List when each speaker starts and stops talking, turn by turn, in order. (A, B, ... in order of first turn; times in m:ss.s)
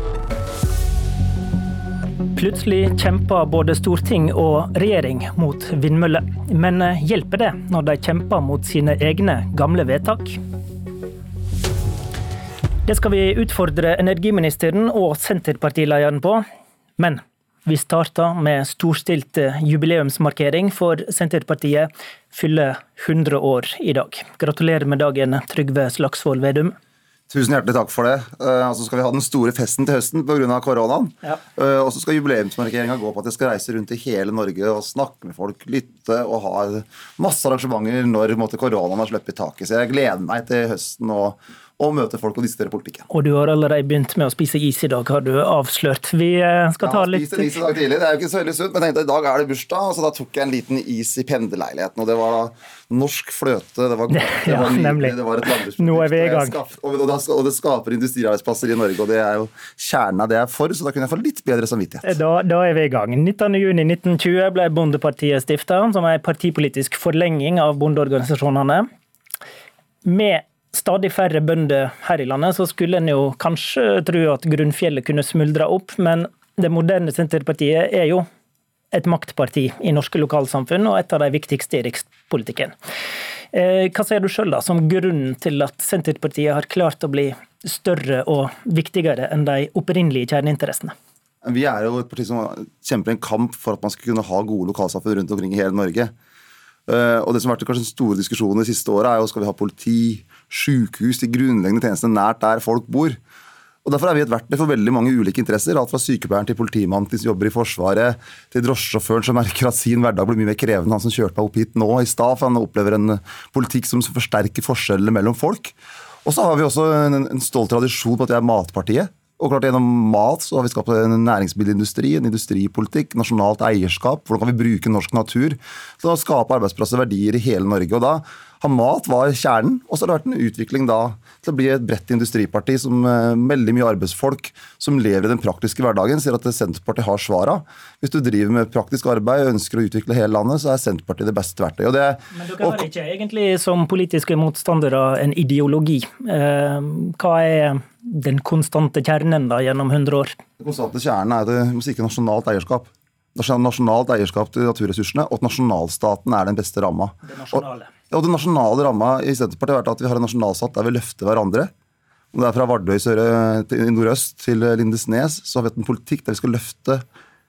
0:02.3-0:10.4 A
0:12.9-0:16.4 A
0:17.0-0:26.7 A
0:27.3-0:43.1 B
0:43.1-0:47.6 A
0:46.8-1:02.1 B
0:54.1-0:56.6 A
1:02.0-1:08.8 A
1:10.0-1:18.2 A
1:18.9-1:22.7 A
1:23.5-1:30.9 A
1:31.4-1:36.1 B
1:36.9-1:43.2 B
1:43.8-2:22.9 B
2:22.3-2:30.3 A
2:30.6-2:41.7 B
2:37.2-2:37.9 A
2:42.3-2:47.0 B